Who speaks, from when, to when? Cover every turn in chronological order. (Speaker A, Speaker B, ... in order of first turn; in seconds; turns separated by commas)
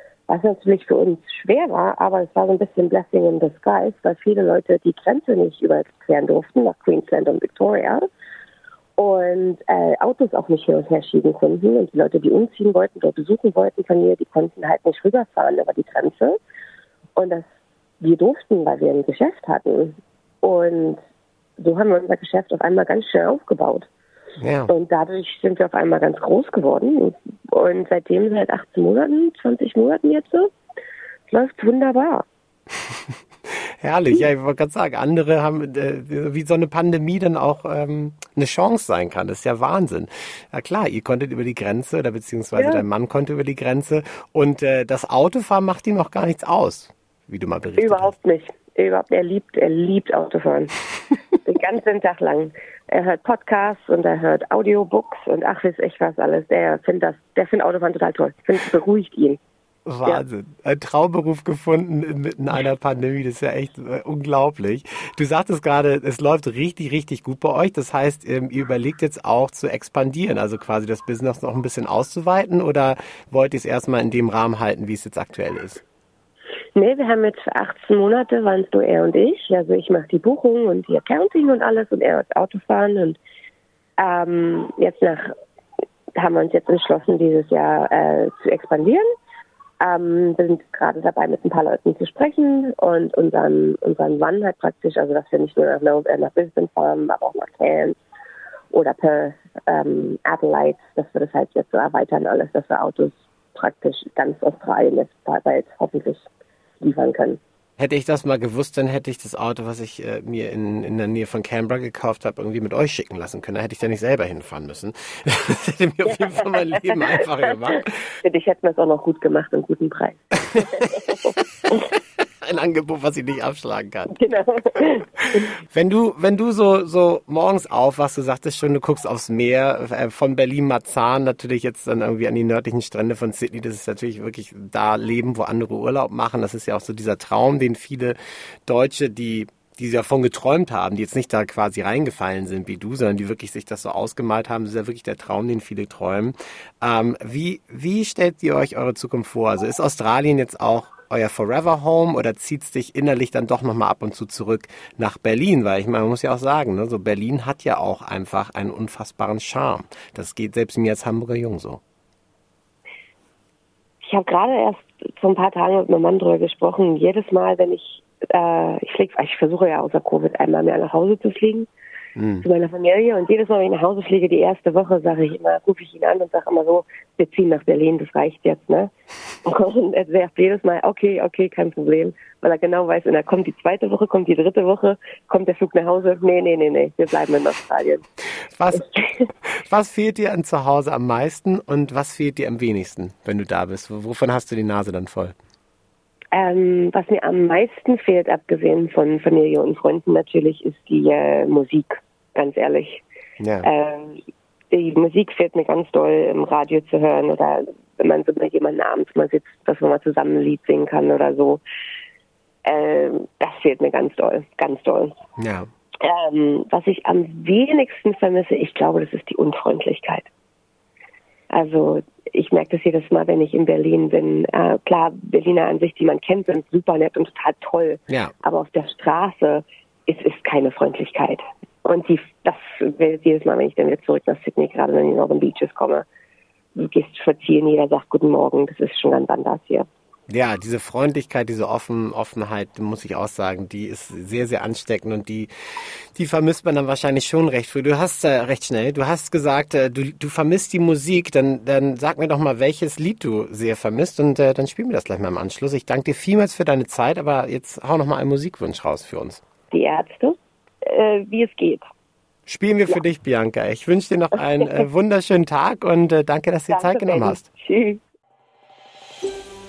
Speaker A: 0.3-8.1, Speaker A: 9.0-16.4, Speaker A: 17.1-17.4, Speaker A: 18.0-21.0, Speaker A: 21.6-23.9, Speaker B: 24.4-24.7, Speaker A: 24.7-30.5, Speaker A: 31.3-32.2, Speaker B: 33.8-48.1, Speaker A: 42.5-42.8, Speaker A: 47.8-50.7, Speaker A: 51.4-59.4, Speaker B: 59.9-75.8, Speaker A: 76.7-83.2, Speaker A: 84.0-85.3, Speaker A: 86.2-89.0, Speaker A: 89.8-98.0, Speaker A: 98.7-106.2, Speaker A: 106.8-107.4, Speaker B: 107.8-118.0, Speaker A: 116.0-121.9, Speaker B: 120.5-121.4, Speaker B: 122.2-124.1, Speaker A: 124.1-125.5, Speaker B: 125.7-161.8, Speaker A: 164.0-171.7, Speaker B: 172.2-172.4, Speaker A: 172.4-178.9, Speaker A: 179.4-188.0, Speaker B: 188.6-188.9, Speaker B: 189.4-195.3, Speaker A: 196.3-203.0, Speaker B: 203.4-203.7, Speaker A: 203.6-211.6, Speaker A: 212.6-215.1, Speaker B: 215.4-215.7, Speaker A: 216.0-220.3, Speaker A: 221.5-236.1, Speaker A: 236.8-239.8, Speaker B: 240.3-259.4, Speaker A: 259.7-261.9, Speaker B: 262.5-267.4, Speaker A: 264.6-264.8, Speaker A: 266.7-268.0